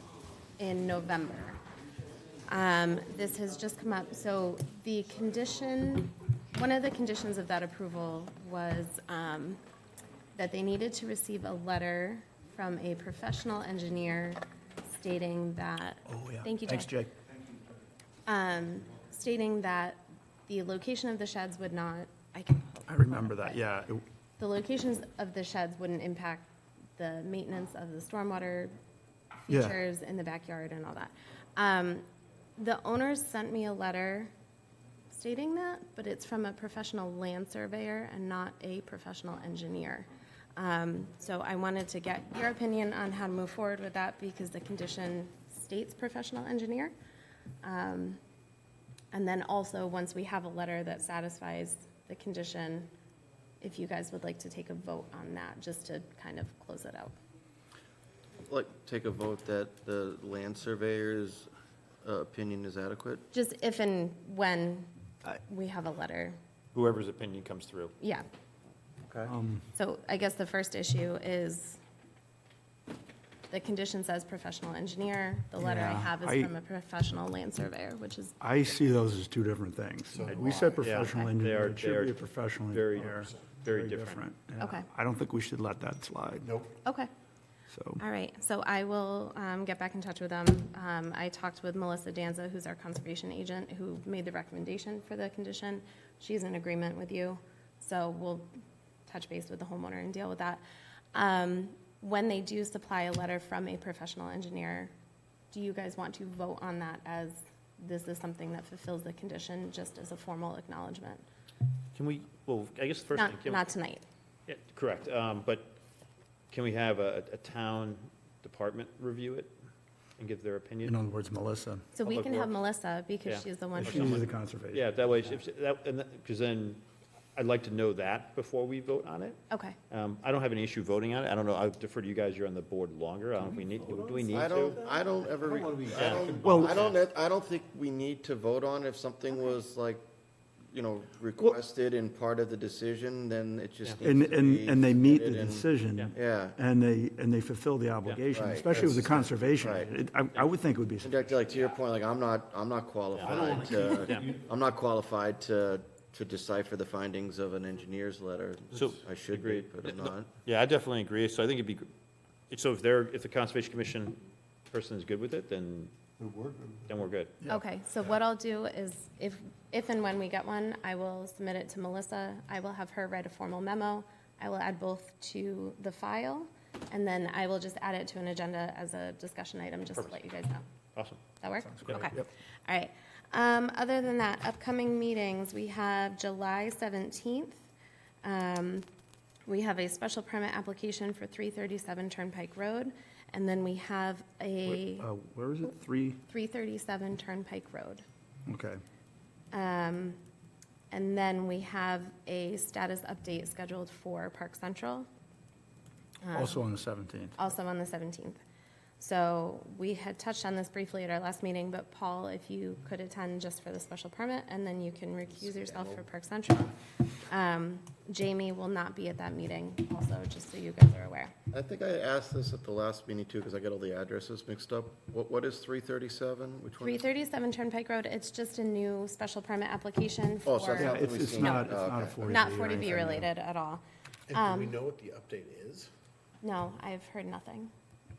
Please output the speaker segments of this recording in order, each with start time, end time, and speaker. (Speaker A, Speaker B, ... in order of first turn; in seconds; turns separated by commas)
Speaker A: 0.6-1.6, Speaker A: 2.5-9.6, Speaker A: 10.3-16.9, Speaker B: 16.1-17.1, Speaker A: 18.2-23.6, Speaker B: 22.9-24.0, Speaker A: 24.4-28.7, Speaker A: 29.4-32.0, Speaker B: 29.5-29.8, Speaker A: 32.6-34.3, Speaker A: 35.1-46.9, Speaker A: 47.6-48.2, Speaker A: 49.1-52.9, Speaker A: 53.6-57.1, Speaker C: 58.5-61.5, Speaker C: 62.0-63.2, Speaker A: 63.3-66.4, Speaker D: 66.7-67.9, Speaker A: 68.0-68.2, Speaker C: 69.1-69.3, Speaker B: 69.2-69.6, Speaker A: 69.7-71.8, Speaker A: 73.5-78.9, Speaker B: 75.6-76.5, Speaker B: 78.4-86.6, Speaker E: 80.1-81.0, Speaker D: 80.8-84.2, Speaker E: 83.1-83.6, Speaker A: 84.6-84.9, Speaker E: 86.4-86.7, Speaker A: 86.8-87.1, Speaker B: 87.7-88.0, Speaker A: 88.0-98.5, Speaker A: 99.1-100.6, Speaker A: 101.1-104.9, Speaker A: 105.5-111.2, Speaker D: 111.9-113.6, Speaker A: 113.1-114.0, Speaker D: 114.5-115.7, Speaker D: 116.5-119.5, Speaker D: 120.2-121.0, Speaker B: 120.8-121.8, Speaker A: 121.9-124.3, Speaker D: 122.0-122.6, Speaker D: 123.2-126.8, Speaker B: 123.7-124.8, Speaker D: 127.3-129.4, Speaker A: 129.5-129.8, Speaker D: 129.9-134.8, Speaker E: 133.8-135.8, Speaker C: 134.3-140.0, Speaker D: 135.9-137.0, Speaker B: 136.4-136.8, Speaker C: 140.7-146.6, Speaker B: 144.0-151.1, Speaker C: 148.3-149.9, Speaker C: 151.0-160.3, Speaker D: 153.1-154.4, Speaker D: 158.7-161.9, Speaker D: 162.5-164.2, Speaker D: 164.7-165.9, Speaker E: 166.2-166.9, Speaker D: 166.9-167.4, Speaker A: 167.4-180.7, Speaker D: 180.0-180.2, Speaker D: 180.9-181.2, Speaker A: 181.4-187.6, Speaker D: 181.8-182.1, Speaker B: 181.9-182.2, Speaker A: 188.2-188.8, Speaker A: 189.5-195.1, Speaker B: 194.7-196.2, Speaker A: 196.3-198.0, Speaker B: 198.5-198.8, Speaker A: 199.5-200.2, Speaker A: 200.9-205.1, Speaker A: 206.2-206.7, Speaker B: 206.3-207.3, Speaker A: 207.3-208.4, Speaker A: 209.0-221.3, Speaker E: 215.4-216.0, Speaker C: 221.5-227.1, Speaker A: 226.8-231.7, Speaker C: 230.4-232.9, Speaker B: 230.8-233.2, Speaker A: 232.2-234.8, Speaker E: 234.3-235.9, Speaker A: 236.4-237.7